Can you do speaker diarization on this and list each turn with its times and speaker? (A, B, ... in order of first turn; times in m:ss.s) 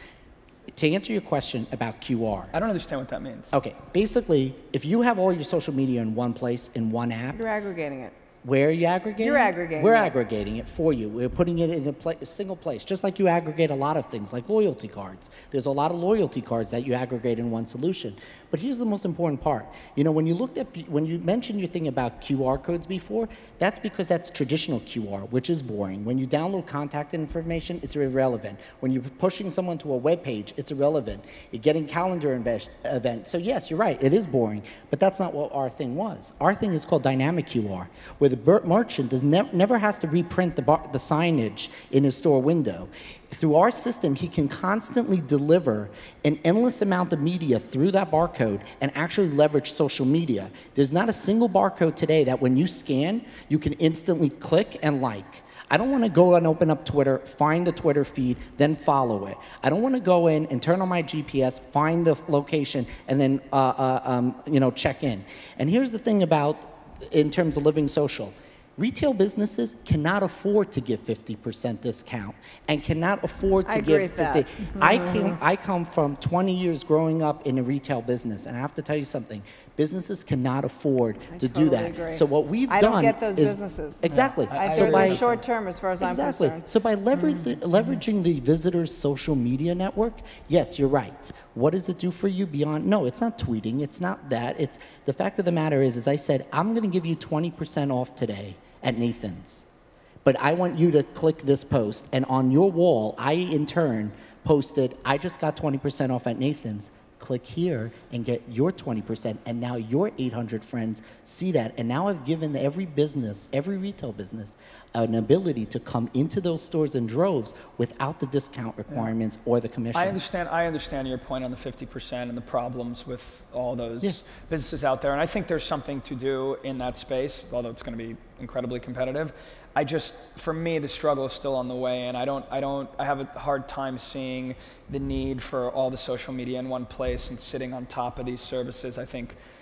0:00.8-0:02.5 A
0:02.5-0:03.5 B
0:03.5-0:07.4 A
0:07.3-0:08.2 C
0:08.4-1:25.3 A
0:09.2-0:10.2 C
1:13.6-1:15.4 C
1:21.3-1:26.6 C
1:24.1-1:25.4 B
1:26.0-1:39.7 A
1:40.2-2:00.4 A
1:59.9-2:19.4 B